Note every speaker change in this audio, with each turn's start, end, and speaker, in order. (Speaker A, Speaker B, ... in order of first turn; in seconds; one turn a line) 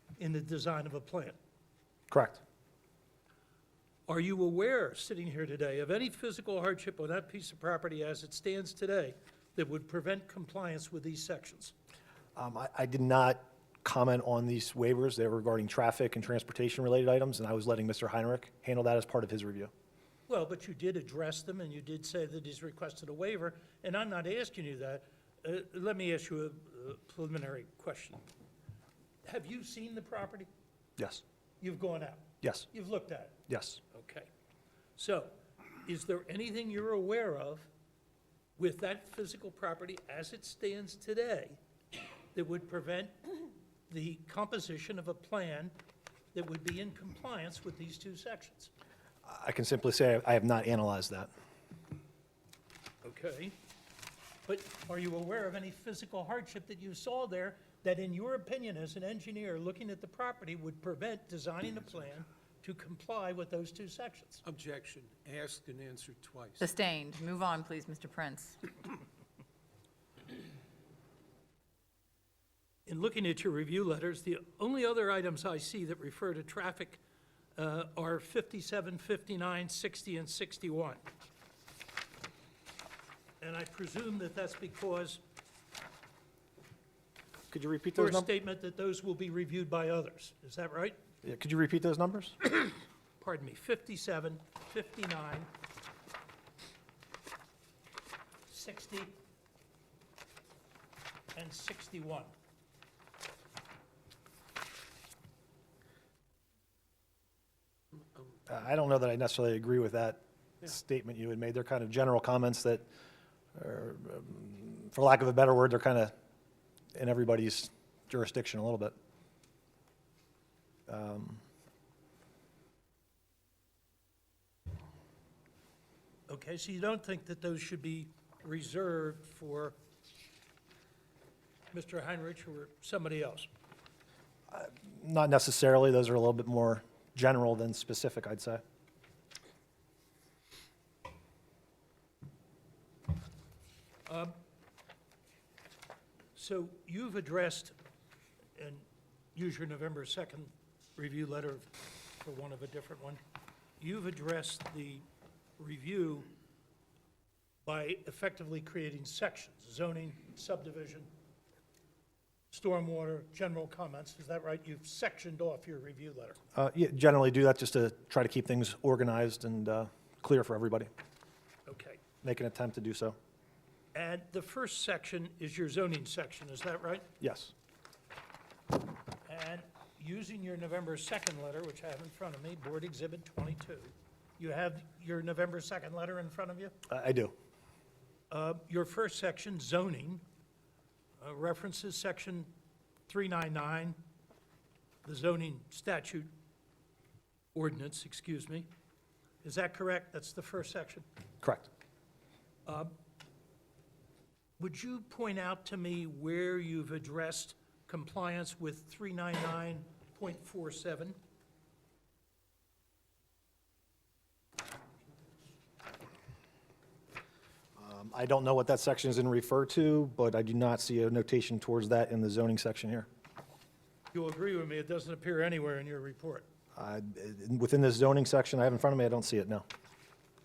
Speaker A: 0.2-1.4
Speaker B: 2.1-2.4
Speaker A: 4.1-11.8
Speaker B: 12.4-19.7
Speaker A: 20.3-28.2
Speaker A: 29.2-30.5
Speaker B: 31.0-31.2
Speaker A: 31.6-33.4
Speaker B: 32.4-32.7
Speaker B: 33.5-33.8
Speaker A: 33.9-34.3
Speaker A: 35.0-37.7
Speaker A: 38.6-41.6
Speaker A: 42.3-43.4
Speaker A: 43.9-45.7
Speaker A: 46.3-48.7
Speaker B: 49.2-51.3
Speaker A: 53.0-53.5
Speaker A: 54.5-64.4
Speaker C: 64.5-66.7
Speaker D: 66.6-68.6
Speaker A: 72.9-77.0
Speaker A: 77.6-81.0
Speaker A: 83.4-85.2
Speaker B: 87.5-88.3
Speaker A: 88.0-91.0
Speaker B: 91.2-92.4
Speaker A: 93.2-95.5
Speaker A: 98.5-99.2
Speaker A: 101.3-102.3
Speaker B: 108.5-112.8
Speaker B: 113.5-116.1
Speaker B: 117.0-118.9
Speaker B: 120.9-121.4
Speaker A: 126.3-129.8
Speaker A: 131.7-133.5
Speaker B: 134.5-138.6
Speaker A: 144.1-144.4
Speaker A: 146.3-147.8
Speaker A: 148.6-153.2
Speaker A: 153.8-155.1
Speaker A: 155.6-156.3
Speaker A: 157.7-161.1
Speaker A: 162.5-166.4
Speaker B: 166.6-170.9
Speaker A: 171.7-172.0
Speaker B: 172.2-173.2
Speaker A: 173.9-177.1
Speaker B: 177.2-177.5
Speaker A: 179.3-186.7
Speaker B: 186.9-187.3
Speaker A: 188.3-190.2
Speaker A: 191.2-192.5
Speaker A: 193.1-194.0
Speaker A: 195.1-196.3
Speaker A: 197.5-198.7
Speaker A: 199.4-201.1
Speaker B: 201.4-201.7
Speaker A: 202.7-202.9
Speaker A: 204.6-211.2
Speaker B: 217.8-223.1
Speaker A: 224.1-226.5
Speaker B: 226.8-229.7